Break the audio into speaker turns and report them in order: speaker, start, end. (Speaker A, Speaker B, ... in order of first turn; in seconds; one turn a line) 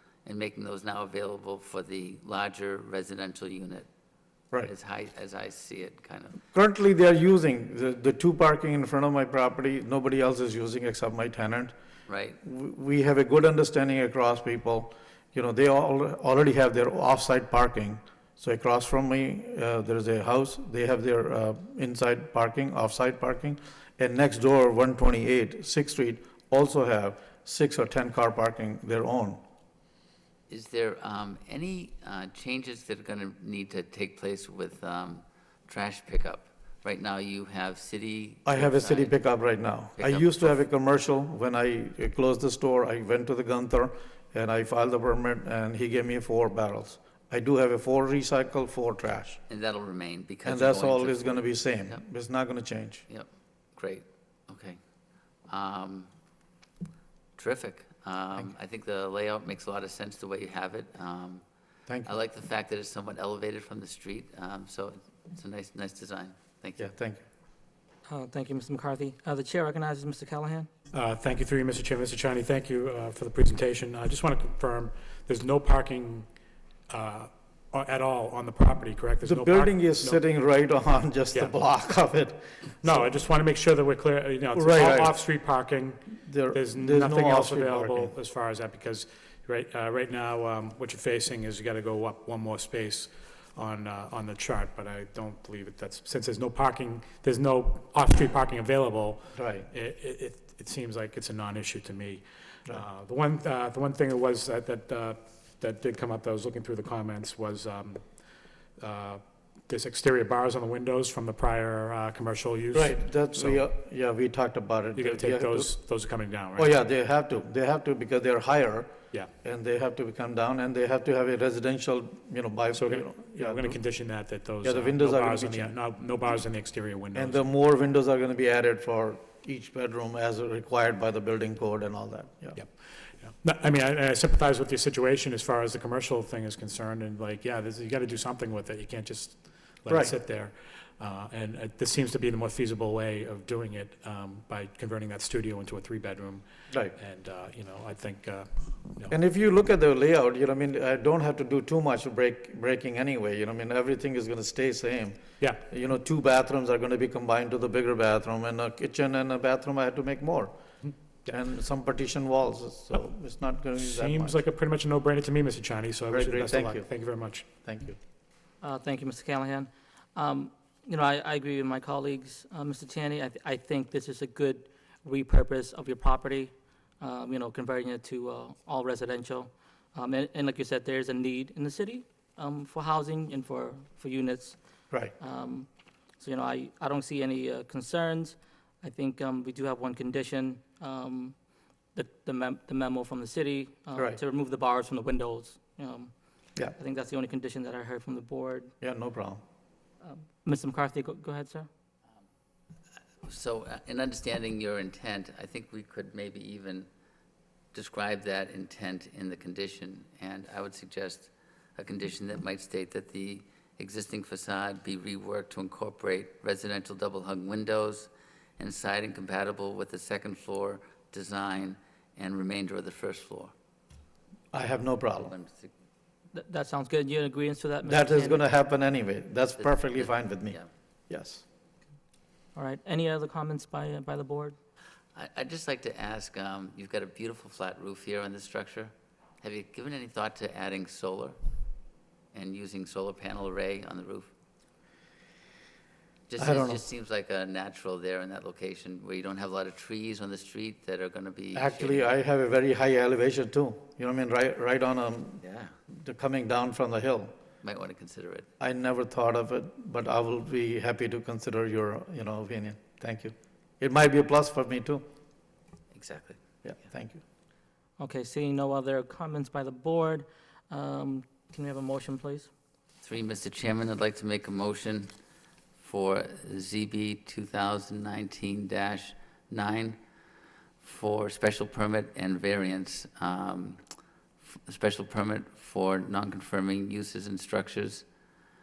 Speaker A: 0.2-3.9
Speaker A: 4.6-6.4
Speaker B: 6.5-11.7
Speaker A: 12.1-12.4
Speaker B: 12.4-29.4
Speaker A: 30.5-39.1
Speaker B: 38.5-49.4
Speaker A: 40.0-40.6
Speaker A: 49.5-52.0
Speaker B: 50.5-53.0
Speaker A: 53.1-54.8
Speaker A: 55.5-56.1
Speaker A: 57.4-61.4
Speaker A: 62.0-66.9
Speaker B: 66.8-67.2
Speaker C: 68.0-70.7
Speaker D: 70.9-76.3
Speaker D: 76.9-80.2
Speaker B: 79.2-83.1
Speaker D: 82.8-108.2
Speaker B: 84.5-85.2
Speaker B: 86.2-88.1
Speaker B: 99.3-99.7
Speaker D: 108.8-113.6
Speaker B: 112.7-115.8
Speaker D: 115.0-116.8
Speaker B: 116.5-123.8
Speaker D: 122.8-127.4
Speaker B: 124.6-125.8
Speaker B: 127.1-132.6
Speaker D: 132.6-149.1
Speaker B: 139.9-140.1
Speaker B: 149.1-160.5
Speaker B: 161.3-164.4
Speaker D: 163.8-167.5
Speaker B: 166.1-166.9
Speaker B: 167.6-168.0
Speaker C: 168.6-184.6
Speaker C: 185.2-185.7
Speaker C: 186.2-191.3
Speaker C: 191.9-196.1
Speaker C: 196.7-198.7
Speaker B: 198.8-199.4
Speaker C: 200.0-201.7
Speaker A: 203.2-206.9
Speaker A: 207.7-223.5
Speaker B: 224.5-225.3
Speaker A: 225.2-225.7
Speaker C: 226.3-228.4
Speaker B: 227.8-230.6
Speaker A: 229.6-230.7
Speaker B: 231.1-231.4
Speaker C: 232.5-234.6
Speaker A: 235.1-241.4
Speaker A: 242.3-244.3
Speaker A: 246.3-252.2
Speaker B: 246.4-246.8
Speaker B: 251.5-255.4
Speaker A: 255.4-255.7
Speaker B: 256.0-257.3
Speaker A: 257.6-258.5
Speaker B: 258.6-265.0
Speaker A: 265.9-266.4
Speaker B: 266.6-267.2
Speaker C: 268.0-272.5
Speaker A: 273.0-275.1
Speaker A: 275.8-280.0
Speaker A: 280.8-283.8
Speaker A: 284.5-288.0